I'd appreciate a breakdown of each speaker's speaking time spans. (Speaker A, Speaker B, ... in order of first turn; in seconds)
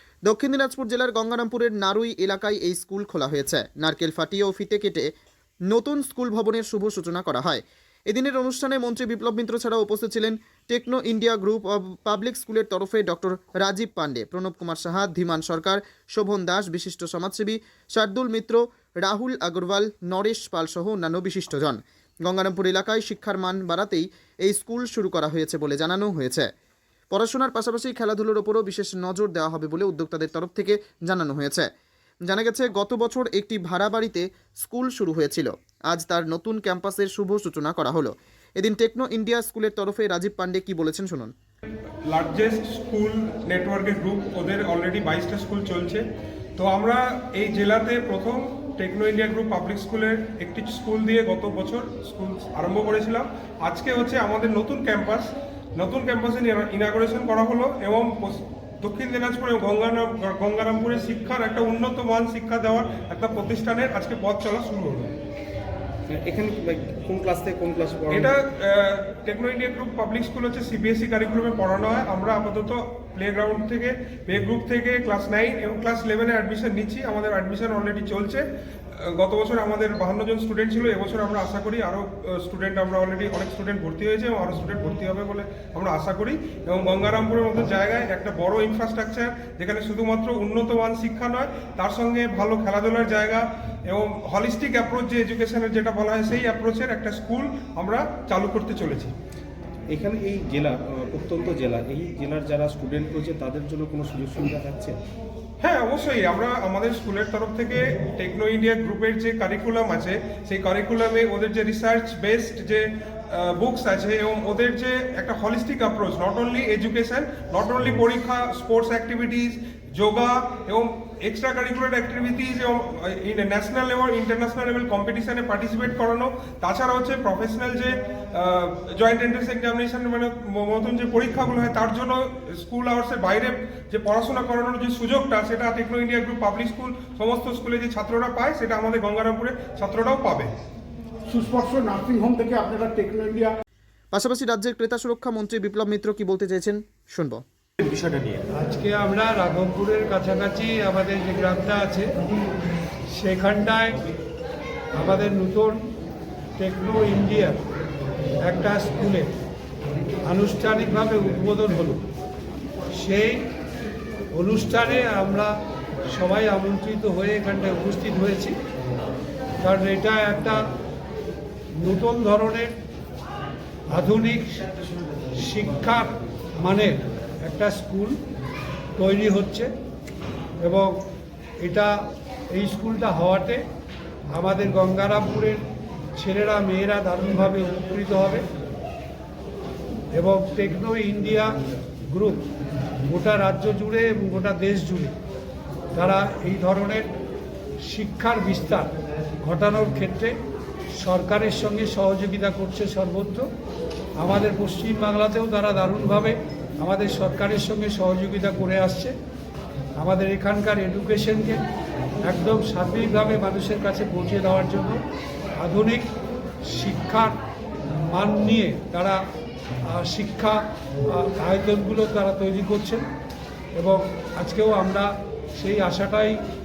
Speaker A: 0.3-5.1, 5.7-26.5, 27.1-31.7, 32.3-41.3, 144.1-147.4
Speaker B: 42.1-46.0, 46.6-65.1, 68.1-78.4, 79.0-99.1, 105.6-140.5
Speaker C: 66.1-68.3, 99.9-105.0
Speaker D: 141.3-143.6
Speaker E: 148.5-152.1, 153.2-154.0, 154.9-155.8, 156.6-157.6, 158.4-159.3, 160.2-162.0, 162.9-163.4, 164.3-165.5, 166.1-168.5, 169.6-170.6, 171.8-172.8, 173.9-174.6, 175.3-176.1, 176.6-178.2, 179.0-179.7, 180.6-180.9, 181.6-181.9, 182.5-183.6, 184.3-185.6, 186.2-188.4, 190.2-191.5, 192.1-192.4, 193.1-195.1, 195.9-197.1, 197.8-198.9, 199.4-200.3, 201.0-203.5, 204.2-209.1, 210.0-211.6, 212.2-215.0, 215.6-216.1, 216.7-217.4, 218.1-219.2, 219.9-220.6, 221.1-223.0, 223.8-226.4